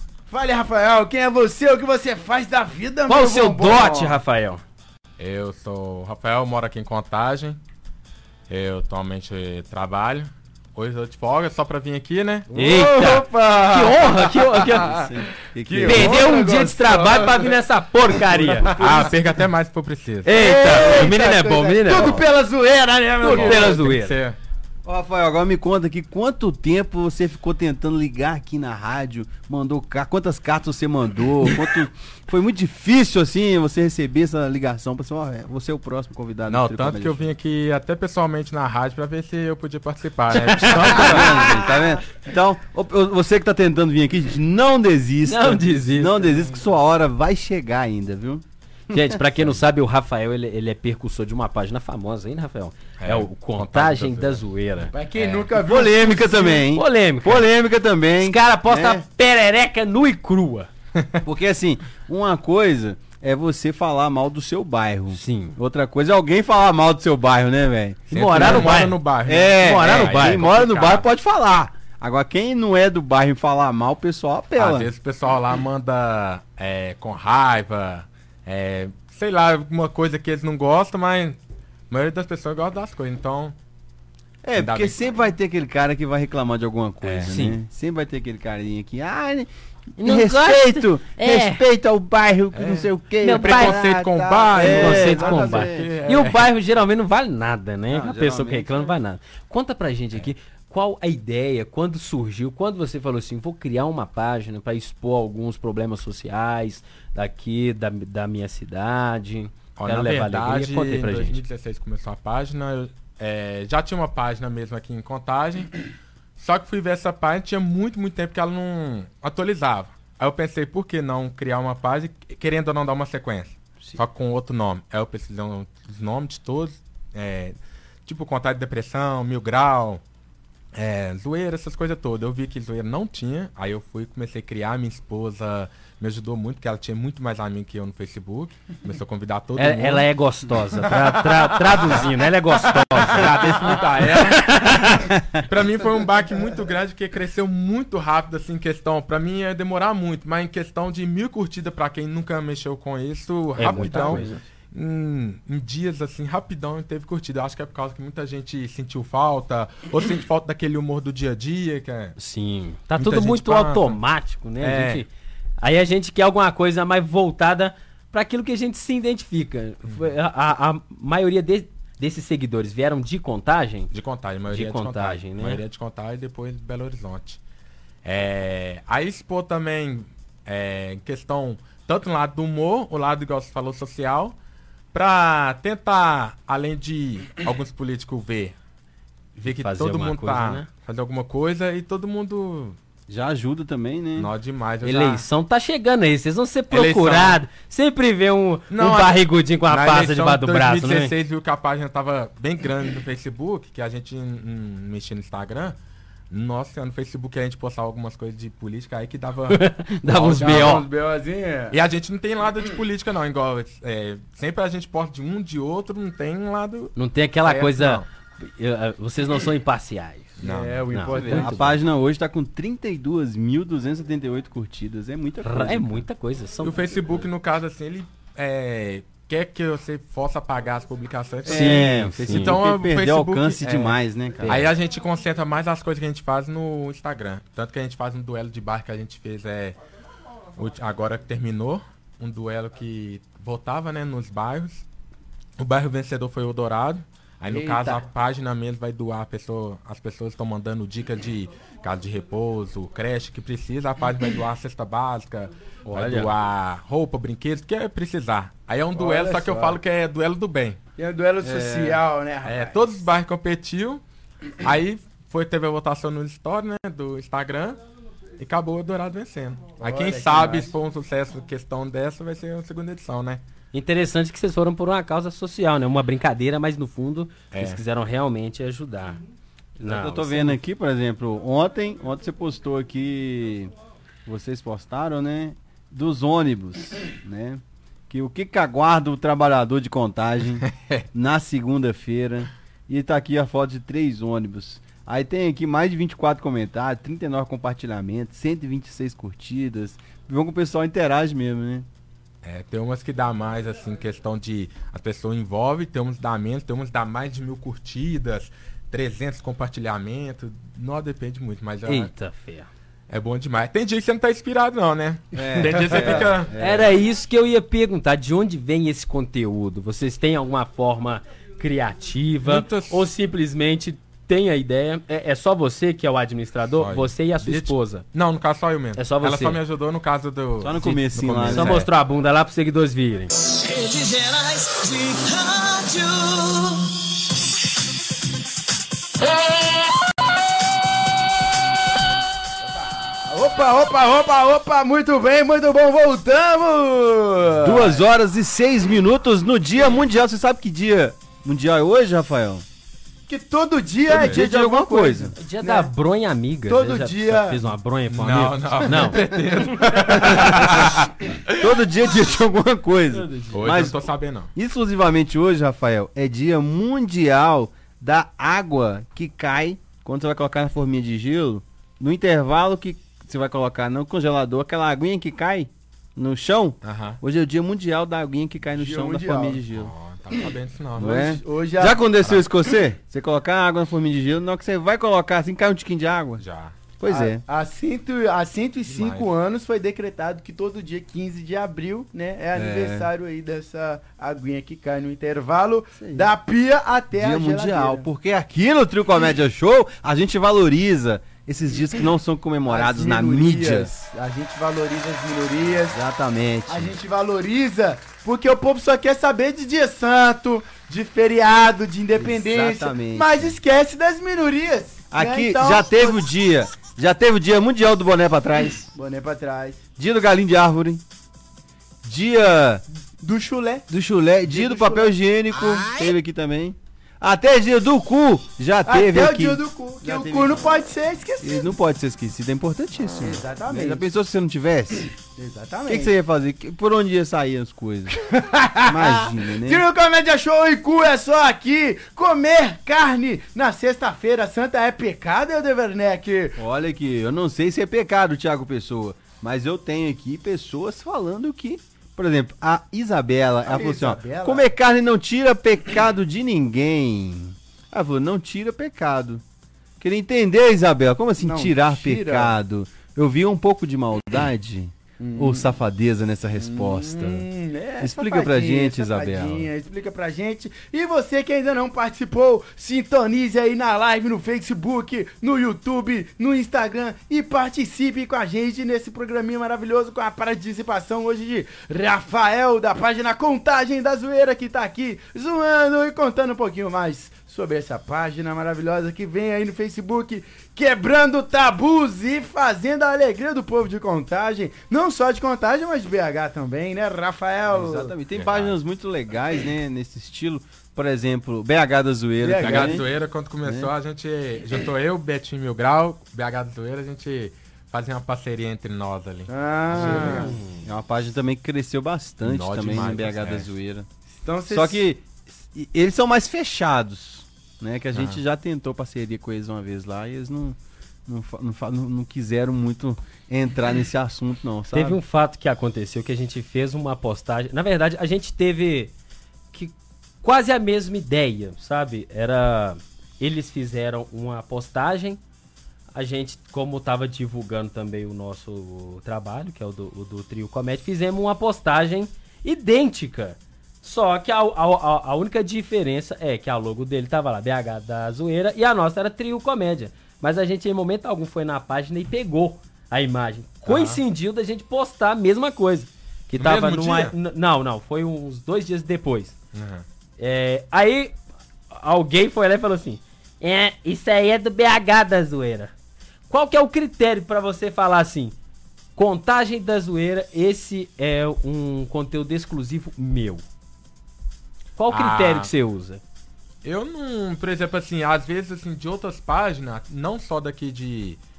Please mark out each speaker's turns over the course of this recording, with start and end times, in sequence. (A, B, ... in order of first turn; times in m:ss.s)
0:00.3-0:04.2 A
0:03.1-0:04.6 B
0:05.2-0:07.6 C
0:08.5-0:12.5 C
0:12.5-0:15.1 A
0:12.5-0:15.0 B
0:14.8-0:16.3 D
0:15.6-0:17.6 A
0:15.8-0:18.8 B
0:18.1-0:19.2 A
0:18.6-0:20.4 C
0:20.2-0:22.2 B
0:20.3-0:23.8 A
0:23.2-0:24.2 B
0:23.3-0:24.4 C
0:24.8-0:37.3 D
0:36.5-0:41.5 C
0:40.4-0:41.8 B
0:40.8-0:49.5 D
0:45.3-0:46.4 B
0:48.9-0:54.9 B
0:53.0-0:54.4 C
0:54.9-0:56.7 A
0:55.5-0:59.0 D
0:56.7-0:57.5 B
0:58.2-1:00.7 B
1:01.2-1:14.9 D
1:05.1-1:05.6 B
1:08.1-1:09.0 B
1:08.1-1:11.0 C
1:09.6-1:10.5 B
1:14.6-1:21.4 C
1:21.9-1:23.6 C
1:24.4-1:35.9 D
1:24.6-1:25.0 C
1:27.0-1:27.6 B
1:30.0-1:31.6 B
1:32.5-1:36.5 C
1:33.2-1:33.8 B
1:34.6-1:51.4 B
1:37.9-1:38.9 D
1:49.8-1:55.7 C
1:56.4-2:10.0 C
2:10.8-2:20.1 C
2:19.6-2:25.1 B
2:22.7-2:42.2 C
2:33.6-2:34.4 B
2:42.2-2:45.1 B
2:43.0-2:44.0 C
2:44.6-2:45.0 C
2:45.6-2:53.9 B
2:53.9-2:57.4 C
2:54.5-2:55.6 B
2:58.0-3:04.4 C
3:04.9-3:08.6 C
3:09.4-3:12.8 C
3:09.4-3:10.7 B
3:13.1-3:14.3 D
3:14.2-3:15.3 C
3:14.8-3:21.1 B
3:16.7-3:17.4 C
3:18.7-3:25.8 C
3:26.3-3:30.8 C
3:29.5-3:30.9 B
3:30.4-3:31.8 A
3:31.7-3:38.1 C
3:37.0-3:40.4 B
3:40.4-3:40.9 C
3:40.4-3:41.6 A
3:40.9-3:41.8 B
3:41.1-3:46.1 D
3:45.4-3:47.2 B
3:46.6-3:59.8 C
3:51.4-3:52.6 B
3:51.4-3:54.7 D
4:00.6-4:04.9 C
4:05.6-4:20.8 C
4:07.5-4:08.0 B
4:15.8-4:16.3 B
4:19.0-4:19.8 A
4:21.0-4:23.0 A
4:21.4-4:22.0 D
4:22.4-4:24.0 C
4:24.6-4:27.8 C
4:28.4-4:33.4 C
4:29.8-4:30.7 A
4:33.7-4:39.2 B
4:37.5-4:37.8 C
4:39.8-4:40.6 B
4:39.8-4:43.7 D
4:44.3-5:01.9 D
4:50.6-4:51.0 C
5:02.4-5:12.1 C
5:11.9-5:12.7 B
5:13.1-5:16.5 C
5:15.3-5:17.0 D
5:16.6-5:28.0 B
5:22.4-5:23.0 C
5:26.8-5:31.9 C
5:29.0-5:29.6 B
5:30.6-5:31.9 D
5:31.5-5:33.3 B
5:33.5-5:36.9 E
5:42.6-5:48.0 A
5:47.5-5:52.6 D
5:53.3-5:55.9 A
5:54.1-5:55.3 D
5:54.1-5:54.4 C
5:55.4-5:59.2 B
5:56.7-5:57.6 A
5:58.1-6:01.8 C
6:00.1-6:04.0 D
6:03.1-6:03.8 B
6:03.5-6:04.5 C
6:04.6-6:19.9 D
6:16.8-6:17.2 C
6:18.8-6:19.6 A
6:19.7-6:21.3 C
6:21.0-6:26.4 D
6:21.1-6:22.0 A
6:26.4-6:26.8 C
6:27.0-6:27.4 D
6:27.1-6:38.1 A
6:28.9-6:29.3 C
6:32.6-6:33.1 D
6:36.0-6:36.3 D
6:37.1-6:43.9 D
6:42.7-6:46.0 A
6:45.8-6:47.0 D
6:46.7-6:56.2 A
6:52.1-6:53.6 D
6:55.1-6:58.9 D
6:59.0-6:59.8 A
7:00.0-7:01.0 D
7:02.0-7:02.8 D
7:03.2-7:03.9 A
7:03.9-7:10.7 D
7:04.5-7:05.1 A
7:08.9-7:11.7 A
7:11.4-7:15.1 D
7:13.2-7:14.0 A
7:15.4-7:16.1 A
7:15.9-7:18.2 D
7:18.2-7:26.6 A
7:18.8-7:19.8 D
7:26.6-7:39.4 D
7:33.7-7:34.7 A
7:40.0-7:47.5 D
7:41.4-7:42.6 A
7:45.2-7:45.8 A
7:46.6-8:18.2 A
7:48.0-7:49.7 D
8:17.7-8:23.1 D
8:18.3-8:18.8 C
8:22.4-8:23.1 A
8:22.6-8:30.5 C
8:23.6-8:23.9 D
8:29.5-8:30.5 A
8:29.9-8:34.1 D
8:30.2-8:30.8 B
8:32.4-8:33.7 C
8:34.4-8:35.0 A
8:34.7-8:45.2 D
8:38.1-8:38.4 C
8:44.9-8:49.1 B
8:49.7-8:55.4 B
8:56.2-9:19.6 B
9:13.9-9:14.2 C
9:16.6-9:17.3 C
9:19.7-9:20.0 C
9:20.4-9:21.4 B
9:21.9-9:25.9 B
9:26.5-9:28.6 B
9:29.2-9:33.6 B
9:35.0-9:36.2 B
9:35.1-9:35.7 C
9:36.8-9:41.4 C